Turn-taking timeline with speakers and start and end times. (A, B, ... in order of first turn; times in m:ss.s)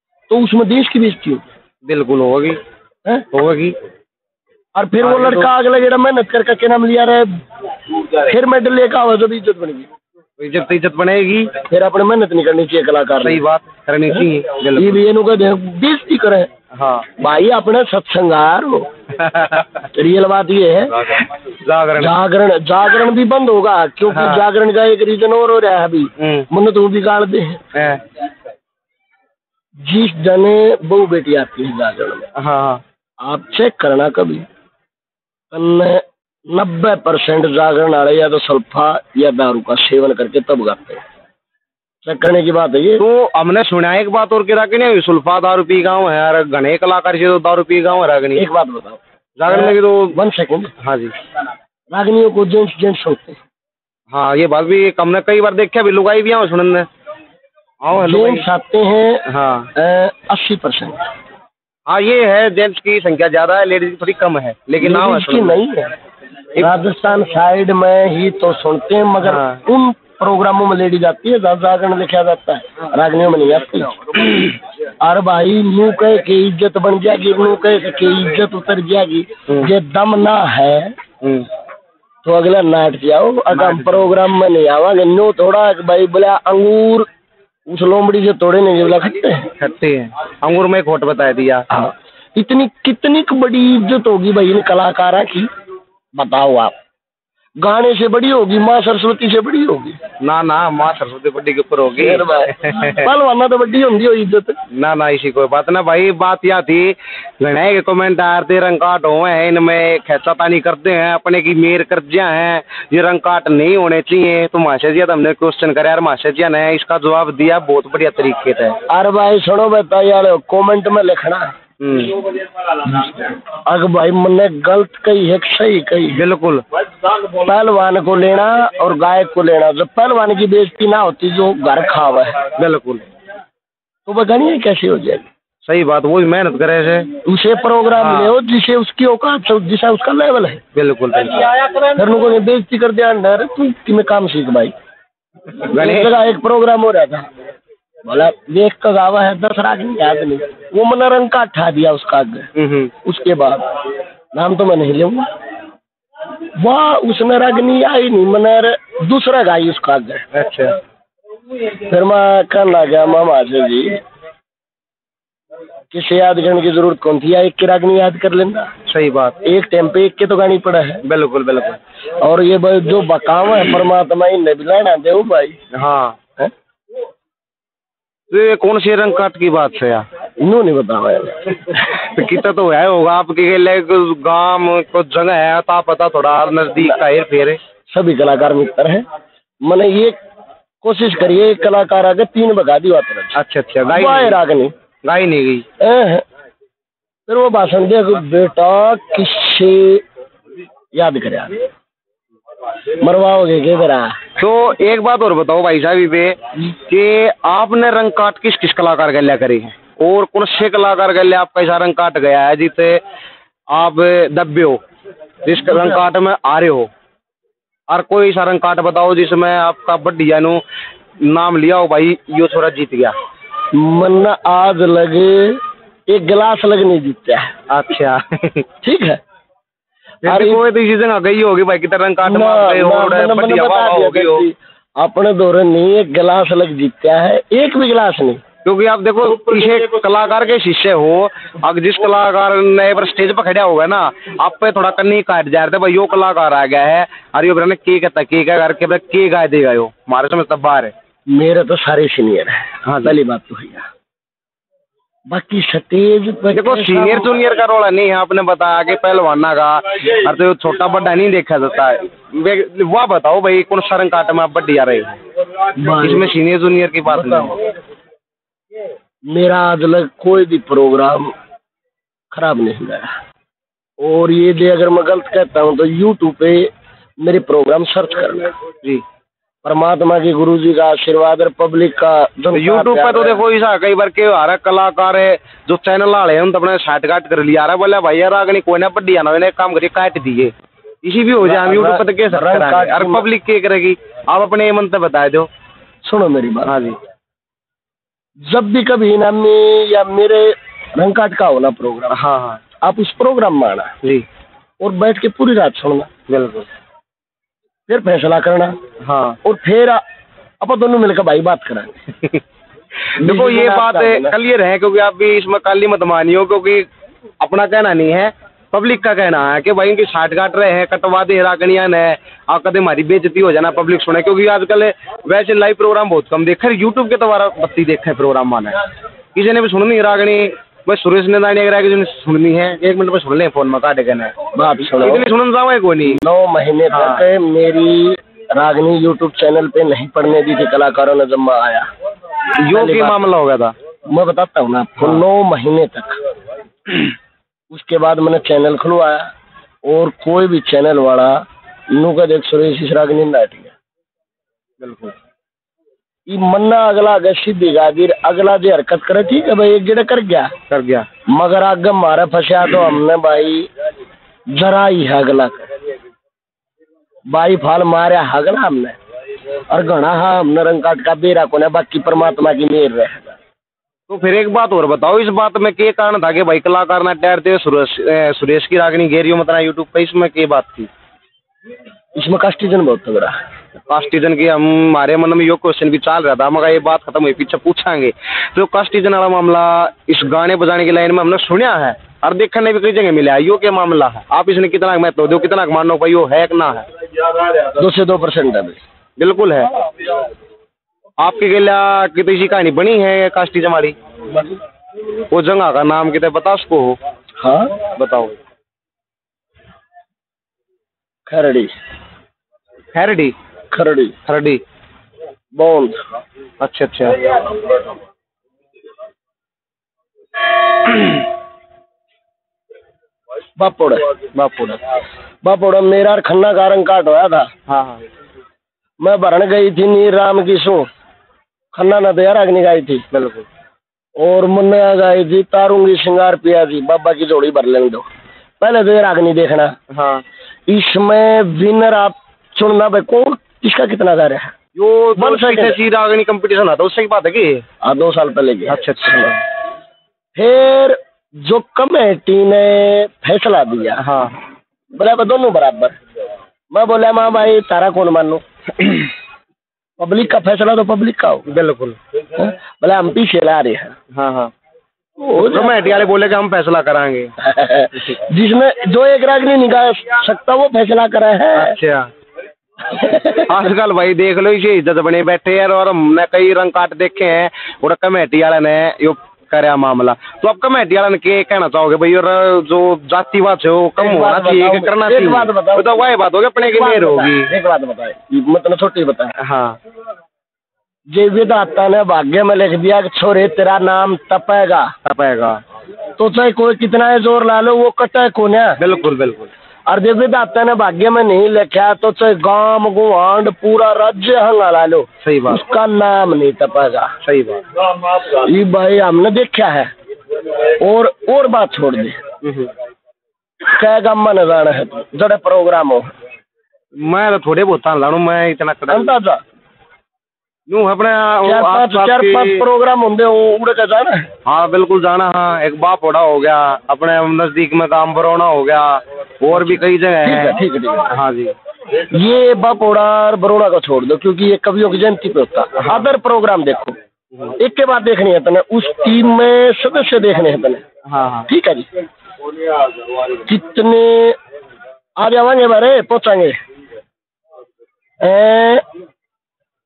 0:00.3-0:01.4 A
0:01.8-0:02.6 B
0:03.3-0:03.8 B
0:04.8-0:07.4 A
0:05.0-0:05.5 B
0:08.0-0:09.9 A
0:10.4-0:11.6 B
0:11.6-0:13.4 A
0:13.2-0:15.0 B
0:14.8-0:16.5 A
0:16.7-0:17.1 B
0:17.2-0:18.9 A
0:19.1-0:19.9 B
0:19.9-0:21.1 A
0:21.0-0:22.1 B
0:22.0-0:27.6 A
0:24.1-0:24.4 B
0:26.2-0:26.5 B
0:27.7-0:28.0 B
0:29.8-0:32.3 A
0:32.4-0:32.8 B
0:33.2-0:34.4 A
0:35.5-0:41.0 A
0:42.0-0:43.0 A
0:43.0-0:48.5 B
0:48.4-0:50.7 A
0:49.4-0:50.2 B
0:50.8-0:51.1 B
0:51.9-0:53.4 A
0:54.1-0:56.9 B
0:57.8-0:58.5 B
0:58.0-1:01.0 A
0:59.2-0:59.7 B
1:01.9-1:05.6 B
1:04.8-1:05.9 A
1:06.6-1:21.0 A
1:09.2-1:09.6 B
1:21.2-1:21.5 B
1:22.2-1:27.1 A
1:23.5-1:24.1 B
1:27.7-1:29.5 A
1:29.6-1:31.7 B
1:31.7-1:35.5 A
1:36.1-1:36.8 A
1:37.6-1:40.0 A
1:40.2-1:43.1 B
1:42.0-1:44.6 A
1:44.7-1:58.8 B
1:58.9-2:01.5 A
2:01.8-2:02.2 B
2:02.8-2:06.2 A
2:06.1-2:06.6 B
2:07.3-2:12.4 A
2:12.6-2:13.1 B
2:14.1-2:15.3 A
2:15.6-2:17.1 B
2:17.2-2:20.6 A
2:18.0-2:18.4 B
2:20.7-2:21.8 B
2:21.8-2:24.7 A
2:25.7-2:27.3 A
2:25.7-2:26.1 B
2:28.0-2:32.5 A
2:32.6-2:32.9 B
2:33.0-2:33.8 A
2:34.3-2:35.2 A
2:36.6-2:40.3 A
2:40.3-2:40.8 B
2:41.8-2:44.0 A
2:45.9-2:48.7 A
2:48.9-2:49.4 B
2:49.4-2:51.0 A
2:51.0-2:51.8 B
2:52.2-2:55.6 A
2:55.7-2:56.2 B
2:58.3-3:00.1 B
3:00.4-3:02.1 A
3:01.8-3:07.6 B
3:07.9-3:09.0 A
3:09.6-3:10.2 A
3:10.8-3:14.7 A
3:13.4-3:14.4 B
3:15.0-3:15.6 B
3:15.8-3:16.2 A
3:17.3-3:20.0 A
3:20.9-3:21.6 A
3:23.0-3:24.3 A
3:24.4-3:33.0 B
3:33.7-3:34.8 B
3:35.4-3:36.9 B
3:37.9-3:40.6 B
3:41.2-3:43.2 B
3:43.7-3:47.5 A
3:47.7-3:48.6 B
3:48.8-3:49.2 A
3:50.2-3:54.4 B
3:50.2-3:50.6 A
3:52.2-3:58.4 A
3:58.6-4:10.9 B
4:11.3-4:13.9 A
4:12.8-4:13.2 B
4:15.3-4:17.3 A
4:16.5-4:25.2 B
4:25.8-4:26.3 A
4:26.0-4:27.6 B
4:29.3-4:31.3 A
4:32.3-4:33.1 A
4:34.0-4:38.5 A
4:39.6-4:43.4 A
4:42.5-4:55.5 B
4:51.4-4:53.3 A
4:56.0-4:56.8 A
4:56.6-4:57.0 B
4:58.4-5:02.2 A
5:02.1-5:02.6 B
5:02.8-5:03.9 A
5:04.8-5:06.1 A
5:06.3-5:06.7 B
5:07.9-5:08.8 A
5:09.0-5:09.4 B
5:09.4-5:10.0 A
5:10.6-5:12.1 A
5:13.2-5:16.9 B
5:13.2-5:14.4 A
5:17.4-5:28.8 B
5:29.4-5:34.4 B
5:34.5-5:35.3 A
5:34.9-5:36.2 B
5:36.1-5:41.9 A
5:36.9-5:37.2 B
5:42.6-5:43.8 B
5:42.7-5:43.2 A
5:44.1-5:46.2 A
5:47.7-5:49.3 A
5:49.8-5:53.7 A
5:54.8-5:55.1 B
5:56.3-6:00.5 A
6:00.7-6:01.1 B
6:01.3-6:03.7 A
6:04.5-6:05.7 A
6:07.3-6:09.0 A
6:09.7-6:13.4 A
6:14.1-6:20.9 B
6:22.2-6:23.4 A
6:23.8-6:36.9 B
6:37.7-6:38.8 A
6:39.2-6:39.8 B
6:41.2-6:44.0 B
6:45.3-6:47.0 B
6:47.4-6:47.7 A
6:47.9-6:48.4 B
6:51.3-6:51.7 A
6:52.9-6:53.4 B
6:53.7-6:54.2 A
6:54.3-6:54.6 B
6:55.6-6:56.0 A
6:56.6-6:57.7 B
7:00.9-7:01.2 B
7:03.6-7:04.1 A
7:04.3-7:04.8 B
7:05.4-7:07.5 A
7:07.7-7:08.1 B
7:09.0-7:10.9 A
7:11.7-7:13.1 A
7:13.1-7:13.4 B
7:14.2-7:18.0 A
7:18.6-7:19.8 A
7:19.9-7:20.2 B
7:20.7-7:24.6 A
7:24.7-7:27.6 B
7:25.2-7:25.8 A
7:27.8-7:29.4 A
7:28.7-7:29.4 B
7:30.4-7:34.1 A
7:34.0-7:34.4 B
7:34.9-7:36.0 A
7:36.7-7:38.4 A
7:40.0-7:41.5 A
7:41.5-7:42.0 B
7:42.4-7:44.0 A
7:44.1-7:44.5 B
7:45.2-7:45.8 A
7:45.4-7:47.4 B
7:47.4-7:51.8 A
7:51.6-7:52.1 B
7:52.9-7:53.4 A
7:53.1-8:07.5 B
8:04.0-8:05.9 A
8:06.6-8:09.4 A
8:09.4-8:09.8 B
8:11.1-8:14.9 A
8:15.0-8:15.6 B
8:16.2-8:18.8 A
8:18.8-8:19.5 B
8:19.9-8:27.1 A
8:25.2-8:25.6 B
8:27.2-8:27.6 B
8:28.0-8:29.9 A
8:30.6-8:32.2 A
8:32.4-8:32.7 B
8:33.6-8:36.1 A
8:36.9-8:39.1 B
8:38.9-8:39.4 A
8:40.7-8:42.6 B
8:41.4-8:44.3 A
8:44.4-8:51.5 B
8:49.6-8:51.1 A
8:52.0-8:57.0 A
8:55.8-8:56.1 B
8:57.6-9:00.8 A
9:01.1-9:01.5 B
9:01.5-9:01.9 A
9:03.2-9:04.4 A
9:05.2-9:06.6 A
9:08.2-9:08.8 A